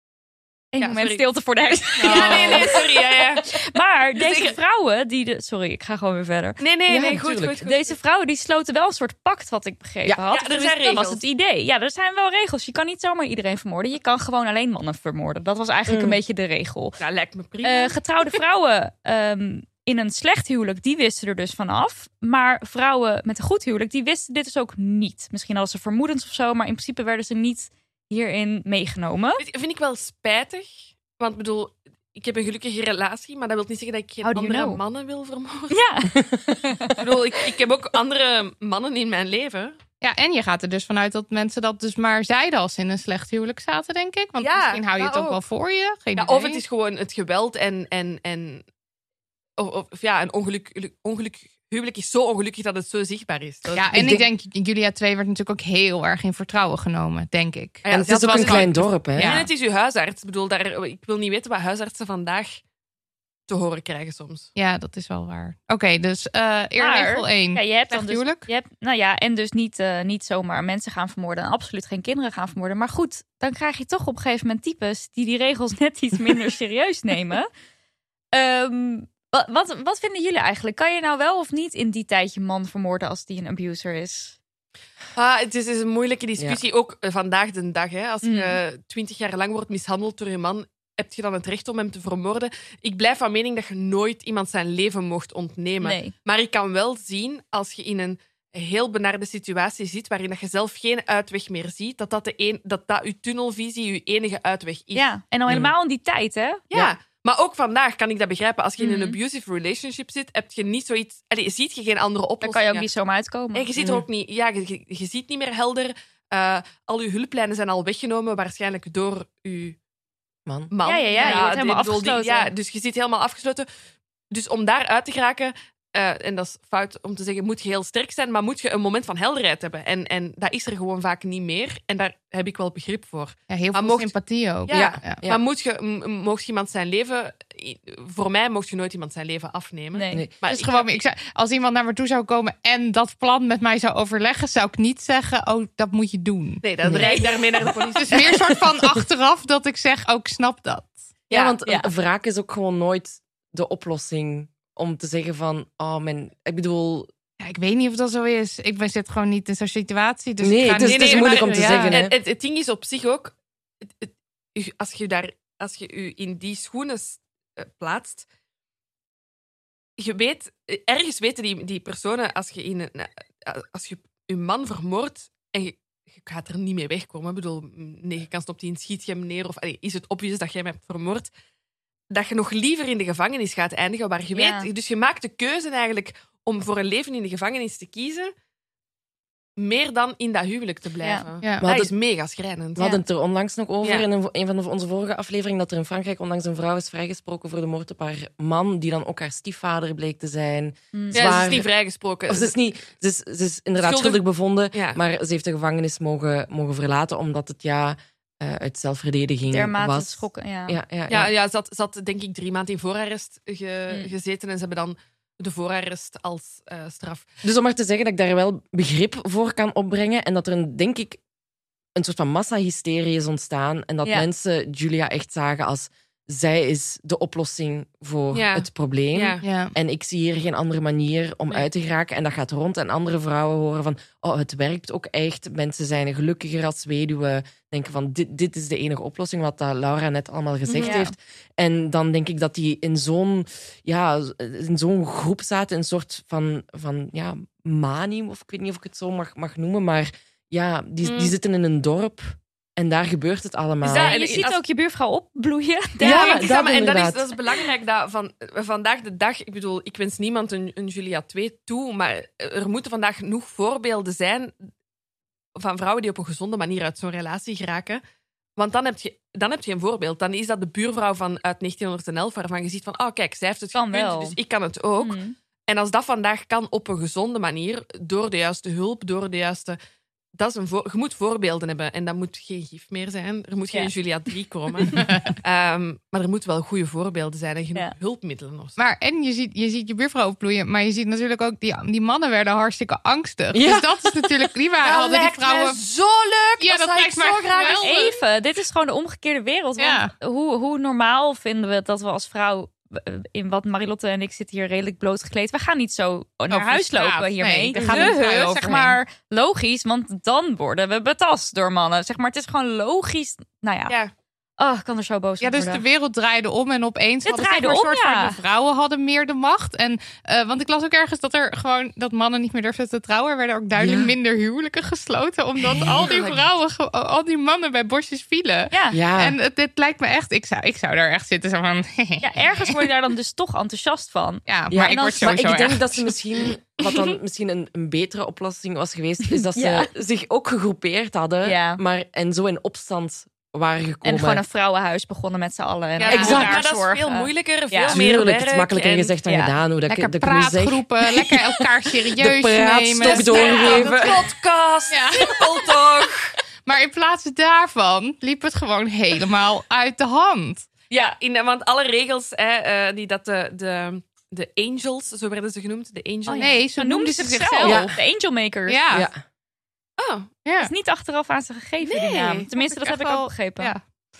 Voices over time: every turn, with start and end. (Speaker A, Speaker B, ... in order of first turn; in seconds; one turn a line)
Speaker A: 0.7-2.8
Speaker B: 0.8-1.2
Speaker C: 2.0-2.6
Speaker B: 2.0-3.5
Speaker A: 3.5-6.6
Speaker B: 4.2-4.5
Speaker B: 6.6-8.0
Speaker D: 6.9-7.6
Speaker A: 7.6-17.0
Speaker B: 10.3-11.2
Speaker D: 15.9-16.2
Speaker B: 17.0-17.9
Speaker A: 17.6-29.4
Speaker B: 29.4-35.8
Speaker A: 34.2-34.8
Speaker A: 35.7-37.0
Speaker B: 37.0-39.8
Speaker C: 40.0-46.6
Speaker B: 44.4-45.4
Speaker B: 46.1-48.6
Speaker B: 49.6-54.2
Speaker C: 53.7-59.5
Speaker B: 57.8-62.6
Speaker D: 57.9-59.4
Speaker B: 63.5-64.5
Speaker C: 64.5-68.5
Speaker A: 66.8-77.5
Speaker A: 78.3-84.3
Speaker B: 85.2-105.1
Speaker A: 88.2-88.6
Speaker A: 95.8-96.1
Speaker A: 104.9-106.6
Speaker D: 105.5-105.7
Speaker B: 106.7-112.8
Speaker A: 108.8-109.2
Speaker A: 112.4-113.7
Speaker B: 113.5-119.8
Speaker D: 113.8-114.0
Speaker D: 120.5-120.7
Speaker B: 120.7-123.7
Speaker A: 120.8-122.5
Speaker B: 124.3-141.0
Speaker C: 133.5-135.2
Speaker D: 134.7-135.4
Speaker A: 139.9-140.2
Speaker C: 140.5-146.6
Speaker B: 146.6-148.4
Speaker D: 146.8-147.1
Speaker C: 148.0-151.0
Speaker B: 151.3-151.6
Speaker D: 151.3-157.1
Speaker C: 157.4-162.0
Speaker D: 160.4-162.1
Speaker B: 160.8-168.2
Speaker B: 170.0-181.3
Speaker B: 182.1-188.3
Speaker A: 184.3-184.7
Speaker B: 189.6-192.8
Speaker D: 191.6-191.9
Speaker D: 192.8-201.7
Speaker A: 200.9-201.3
Speaker B: 201.1-202.5
Speaker D: 202.3-211.3
Speaker B: 203.8-204.2
Speaker B: 204.7-205.0
Speaker A: 209.5-210.8
Speaker B: 211.1-217.3
Speaker D: 217.4-221.2
Speaker D: 221.9-254.2
Speaker B: 228.3-229.4
Speaker C: 229.4-229.7
Speaker B: 240.7-241.0
Speaker A: 240.8-241.1
Speaker B: 251.0-251.3
Speaker B: 253.8-254.6
Speaker A: 253.8-256.5
Speaker D: 256.0-257.2
Speaker B: 256.0-264.5
Speaker B: 265.6-268.0
Speaker B: 268.6-279.8
Speaker A: 273.7-274.4
Speaker A: 275.0-275.3
Speaker B: 280.4-288.8
Speaker C: 285.0-285.3
Speaker C: 288.8-295.8
Speaker D: 293.5-294.4
Speaker B: 294.8-298.0
Speaker C: 296.6-298.1
Speaker A: 297.8-313.9
Speaker C: 299.8-300.1
Speaker C: 306.5-309.0
Speaker A: 314.6-315.8
Speaker C: 315.4-332.8
Speaker A: 317.2-318.4
Speaker D: 323.8-324.1
Speaker A: 326.0-326.4
Speaker A: 328.7-329.0
Speaker D: 328.9-329.4
Speaker A: 332.2-335.7
Speaker C: 334.5-336.1
Speaker D: 334.7-344.4
Speaker A: 339.3-339.9
Speaker A: 341.4-341.8
Speaker A: 344.0-348.0
Speaker C: 346.0-346.4
Speaker B: 346.0-349.1
Speaker D: 346.1-346.6
Speaker D: 347.9-351.4
Speaker A: 349.2-349.5
Speaker C: 349.9-354.1
Speaker D: 352.1-354.2
Speaker B: 353.0-356.3
Speaker C: 354.9-355.3
Speaker C: 356.6-360.7
Speaker B: 360.9-366.6
Speaker A: 366.3-368.9
Speaker C: 366.3-367.9
Speaker D: 367.6-367.9
Speaker C: 368.7-369.1
Speaker D: 368.9-369.2
Speaker B: 370.0-370.3
Speaker C: 370.4-370.7
Speaker A: 370.6-373.7
Speaker B: 371.8-372.5
Speaker C: 372.6-373.8